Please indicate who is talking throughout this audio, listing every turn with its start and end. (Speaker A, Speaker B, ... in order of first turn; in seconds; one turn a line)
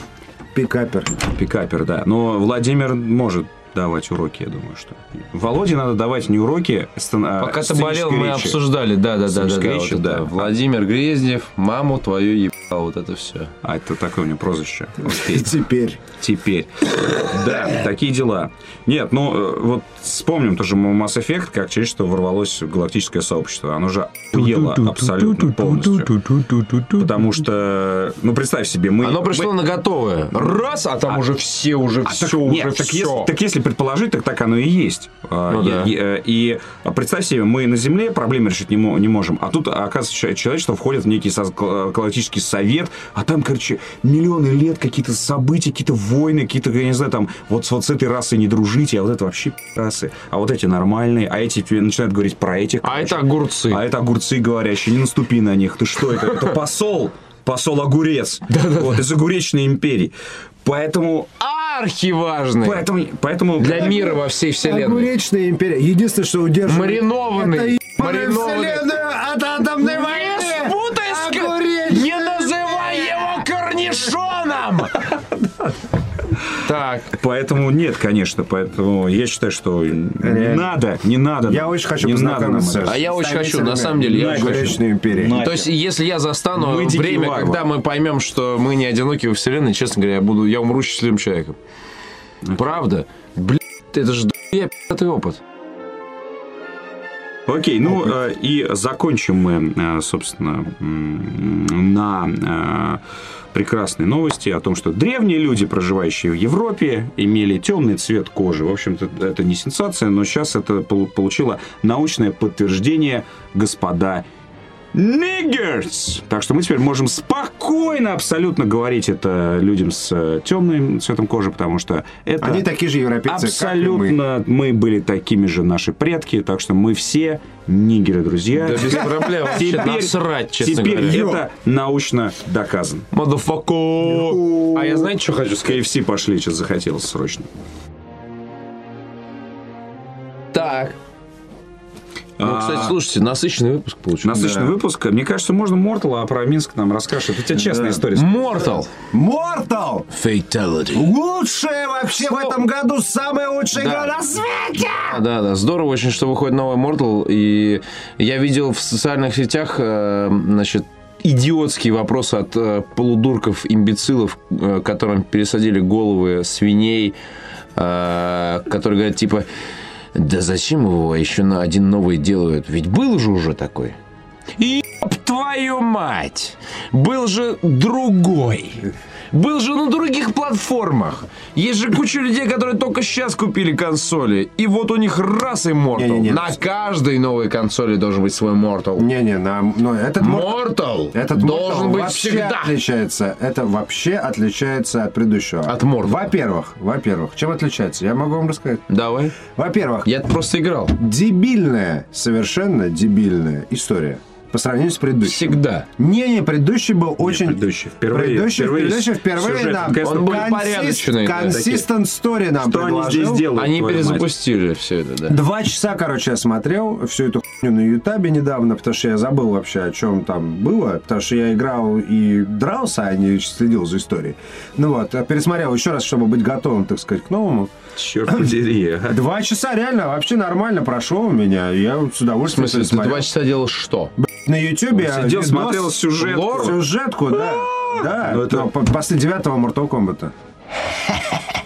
Speaker A: 0.5-1.1
Speaker B: 1.2-8.6
Speaker C: 7.4-13.5
Speaker B: 9.2-10.5
Speaker B: 13.6-15.5
Speaker A: 15.0-16.0
Speaker B: 16.0-26.1
Speaker C: 24.3-27.0
Speaker B: 26.9-29.6
Speaker C: 29.0-33.3
Speaker B: 32.0-60.1
Speaker C: 35.5-35.9
Speaker C: 52.8-53.8
Speaker C: 58.5-59.0
Speaker B: 60.6-61.3
Speaker C: 61.4-62.8
Speaker B: 62.6-64.2
Speaker C: 63.6-65.1
Speaker A: 63.9-73.3
Speaker C: 66.7-69.0
Speaker C: 69.8-75.0
Speaker C: 76.6-77.1
Speaker B: 77.1-83.0
Speaker A: 80.2-80.8
Speaker A: 81.5-85.4
Speaker C: 82.8-84.8
Speaker B: 84.1-85.7
Speaker C: 85.3-91.6
Speaker B: 86.5-87.7
Speaker B: 92.5-92.8
Speaker C: 92.5-95.4
Speaker B: 97.5-103.0
Speaker B: 103.5-114.2
Speaker B: 114.9-122.7
Speaker A: 122.4-124.2
Speaker B: 123.2-133.1
Speaker C: 128.5-131.2
Speaker A: 131.1-131.4
Speaker C: 133.1-135.8
Speaker B: 134.2-135.0
Speaker B: 135.6-137.5
Speaker C: 140.5-140.9
Speaker B: 142.4-143.0
Speaker C: 142.4-144.6
Speaker B: 144.2-148.7
Speaker A: 144.3-144.7
Speaker A: 147.7-148.0
Speaker C: 148.1-148.9
Speaker A: 149.1-150.1
Speaker C: 150.1-151.1
Speaker A: 150.9-155.2
Speaker C: 153.7-154.1
Speaker C: 155.0-167.2
Speaker C: 167.7-169.5
Speaker C: 170.1-173.9
Speaker C: 174.6-189.1
Speaker A: 185.9-186.6
Speaker A: 189.0-198.9
Speaker C: 190.2-192.7
Speaker C: 195.7-196.3
Speaker C: 198.9-199.4
Speaker A: 199.4-200.1
Speaker C: 200.0-200.9
Speaker A: 201.0-213.5
Speaker C: 205.2-205.8
Speaker B: 207.2-210.6
Speaker C: 210.0-211.8
Speaker B: 212.6-214.3
Speaker C: 213.5-215.4
Speaker A: 215.3-227.7
Speaker B: 227.9-229.2
Speaker A: 229.1-233.3
Speaker C: 232.5-234.1
Speaker A: 234.2-240.3
Speaker B: 234.9-236.9
Speaker C: 236.2-236.8
Speaker B: 237.5-238.7